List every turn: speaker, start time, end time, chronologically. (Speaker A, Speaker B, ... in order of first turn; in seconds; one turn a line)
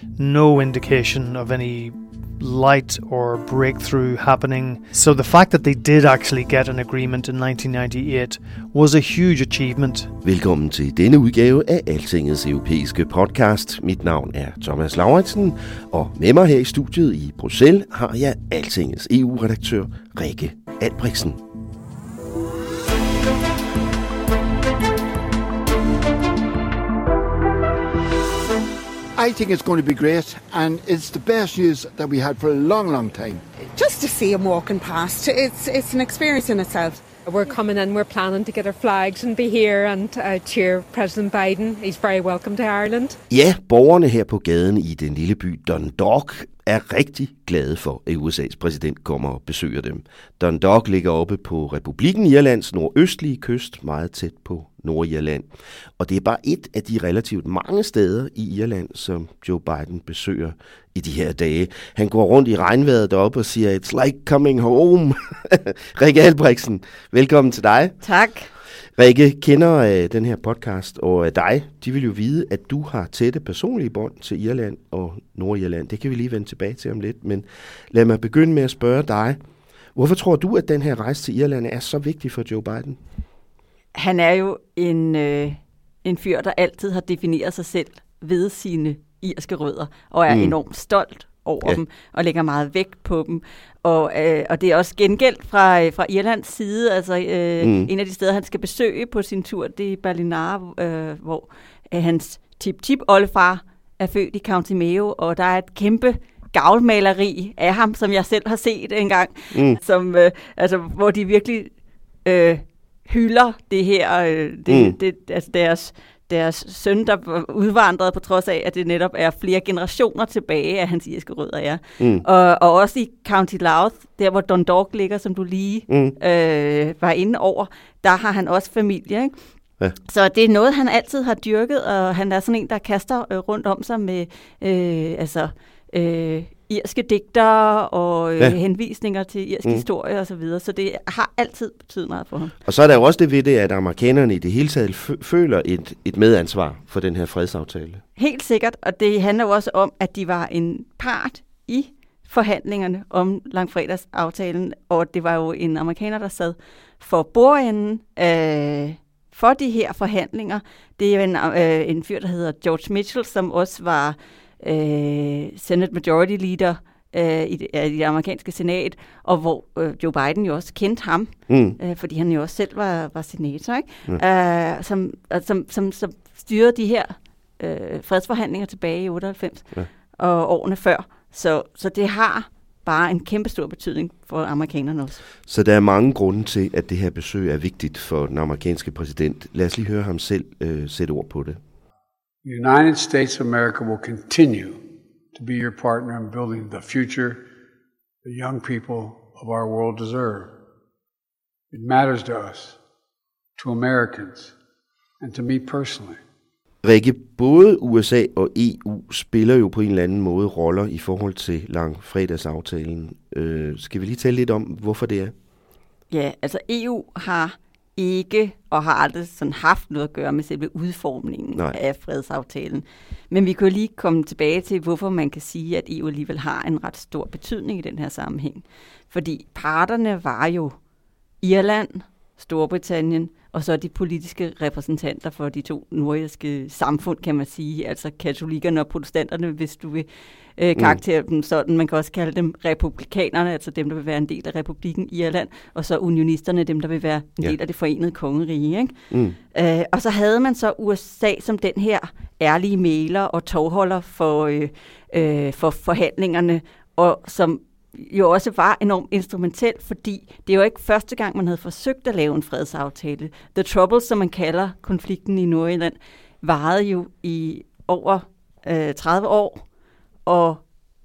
Speaker A: 0.2-10.1
Speaker B: 10.2-21.4
Speaker C: 29.2-33.4
Speaker D: 33.7-37.0
Speaker E: 37.2-43.2
Speaker B: 43.3-68.0
Speaker F: 68.0-68.5
Speaker B: 69.0-79.4
Speaker B: 79.9-83.0
Speaker F: 83.9-111.7
Speaker B: 90.3-90.5
Speaker B: 97.6-97.9
Speaker B: 109.5-109.8
Speaker F: 112.2-129.3
Speaker B: 114.7-115.0
Speaker B: 122.0-122.2
Speaker B: 125.9-126.2
Speaker F: 130.1-142.5
Speaker B: 142.6-148.0
Speaker F: 148.2-185.2
Speaker B: 171.5-171.8
Speaker B: 185.5-191.6
Speaker G: 192.4-194.8
Speaker G: 195.3-197.4
Speaker G: 198.2-200.6
Speaker G: 201.7-202.8
Speaker G: 203.6-204.5
Speaker G: 205.2-206.2
Speaker B: 206.8-215.3
Speaker F: 216.1-230.7
Speaker F: 231.4-248.9
Speaker B: 249.1-249.4
Speaker F: 249.5-269.6
Speaker F: 270.2-270.6